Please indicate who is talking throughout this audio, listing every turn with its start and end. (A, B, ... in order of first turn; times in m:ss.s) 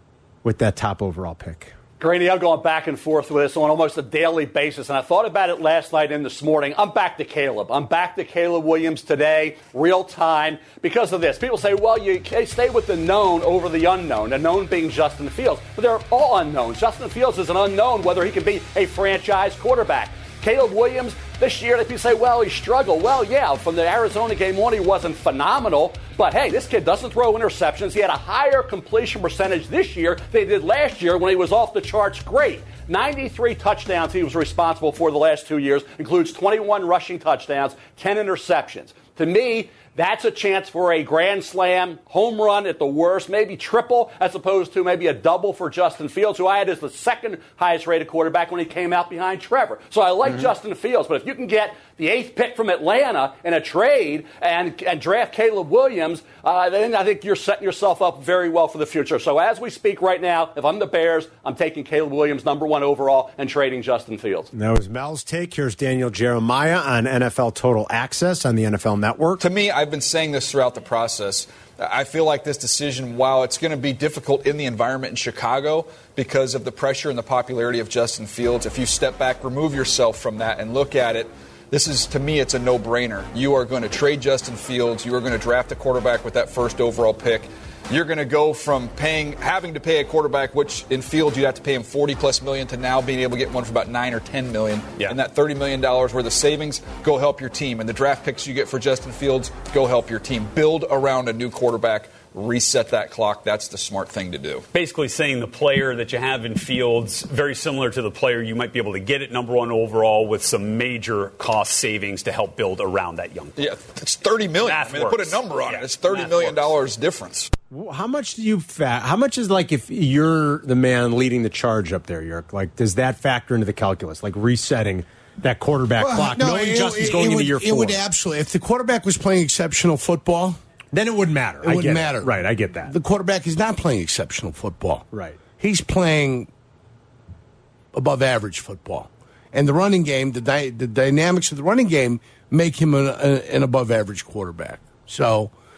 0:00.4-0:01.7 A
0:02.0-1:04.5 B
1:04.5-1:09.4 A
1:09.4-1:44.7 C
1:44.7-1:53.6 D
1:53.6-1:57.5 C
1:54.7-1:55.1 D
1:57.7-2:08.0 A
2:06.0-2:10.6 E
2:10.9-2:13.0 A
2:11.6-2:12.3 E
2:12.9-2:16.5 E
2:15.1-2:15.4 A
2:17.9-2:25.5 E